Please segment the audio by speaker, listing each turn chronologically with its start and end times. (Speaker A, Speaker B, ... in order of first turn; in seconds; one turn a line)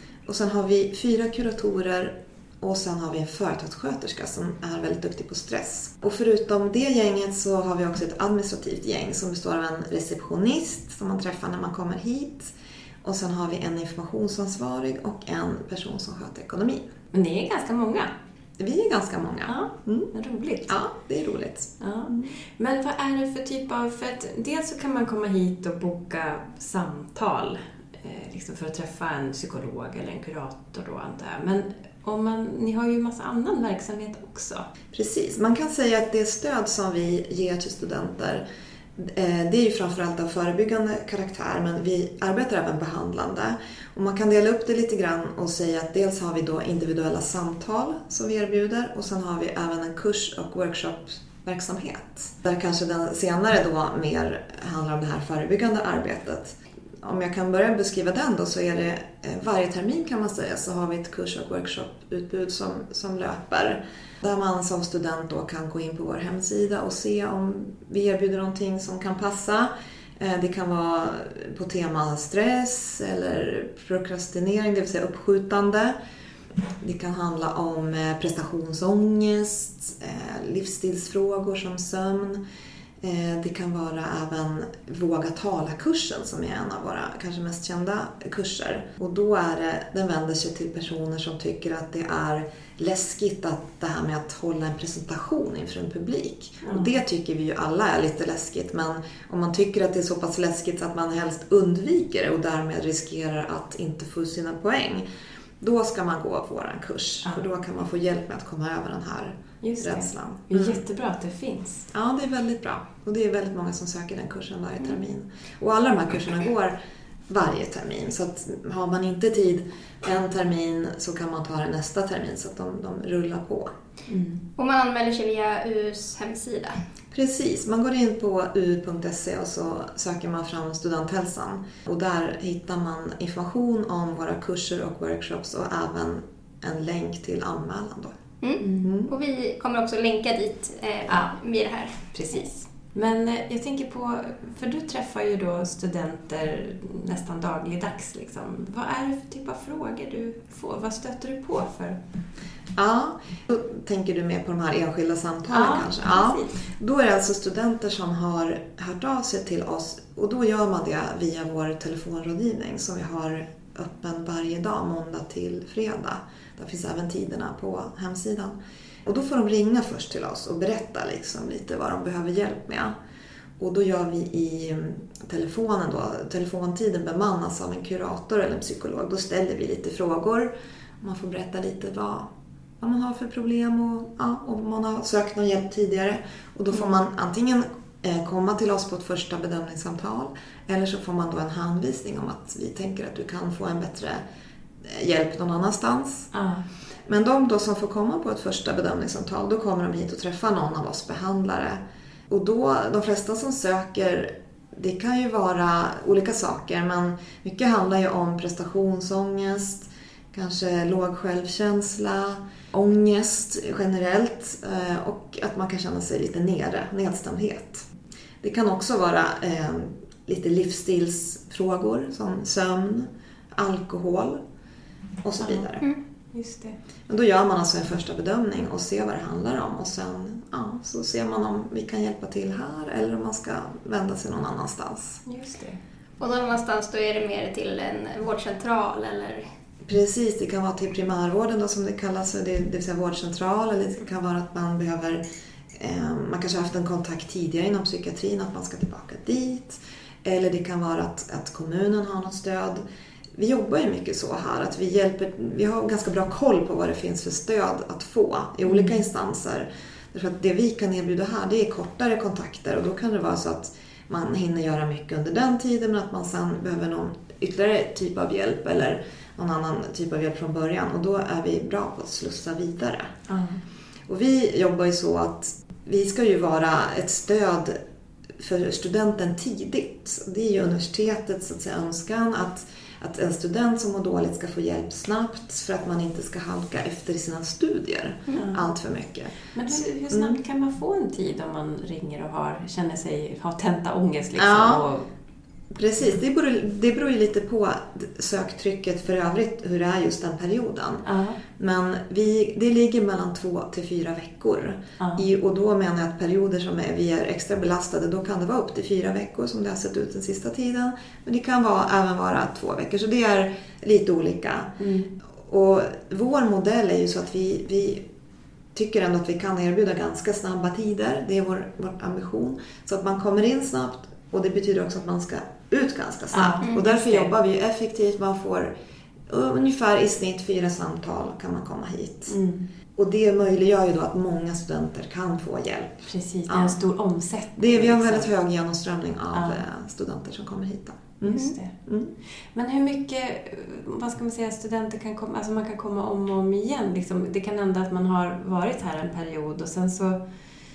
Speaker A: 0.2-16.8
Speaker B: 17.1-18.1
Speaker A: 18.6-20.1
Speaker B: 19.4-20.8
Speaker A: 20.7-22.4
Speaker B: 21.8-34.7
Speaker A: 34.9-38.4
Speaker A: 39.0-75.9
Speaker A: 76.8-82.4
Speaker A: 83.0-105.0
Speaker B: 96.6-96.9
Speaker A: 105.6-110.8
Speaker B: 109.6-111.9
Speaker A: 111.9-116.8
Speaker A: 117.3-123.7
Speaker B: 124.1-124.4
Speaker C: 124.6-126.7
Speaker A: 127.1-138.1
Speaker C: 138.4-142.4
Speaker B: 138.6-138.9
Speaker A: 138.8-139.1
Speaker B: 141.1-141.4
Speaker B: 142.1-152.0
Speaker A: 152.7-172.9
Speaker B: 155.5-156.6
Speaker A: 173.6-182.3
Speaker A: 182.8-194.2
Speaker A: 194.8-196.3
Speaker B: 196.3-196.7
Speaker A: 197.1-217.8
Speaker A: 218.4-224.4
Speaker A: 225.2-225.9
Speaker B: 225.4-225.7
Speaker B: 226.3-226.8
Speaker A: 227.1-235.2
Speaker B: 235.2-235.8
Speaker C: 236.2-239.4
Speaker A: 239.9-245.2
Speaker A: 245.8-252.8
Speaker A: 253.3-273.1
Speaker B: 258.6-259.0
Speaker B: 273.3-273.6
Speaker A: 274.1-277.8
Speaker A: 278.4-290.4
Speaker B: 288.3-288.6
Speaker B: 289.5-295.1
Speaker A: 294.3-294.8
Speaker A: 295.7-301.0
Speaker B: 301.0-301.4
Speaker A: 301.6-314.7
Speaker B: 305.0-305.2
Speaker B: 314.8-315.1
Speaker A: 315.4-318.0
Speaker A: 318.7-328.7
Speaker B: 326.3-327.3
Speaker A: 329.3-332.4
Speaker B: 332.3-332.6
Speaker A: 332.9-336.8
Speaker B: 336.1-338.3
Speaker A: 337.6-342.1
Speaker B: 339.3-339.6
Speaker B: 341.2-341.7
Speaker B: 342.5-350.2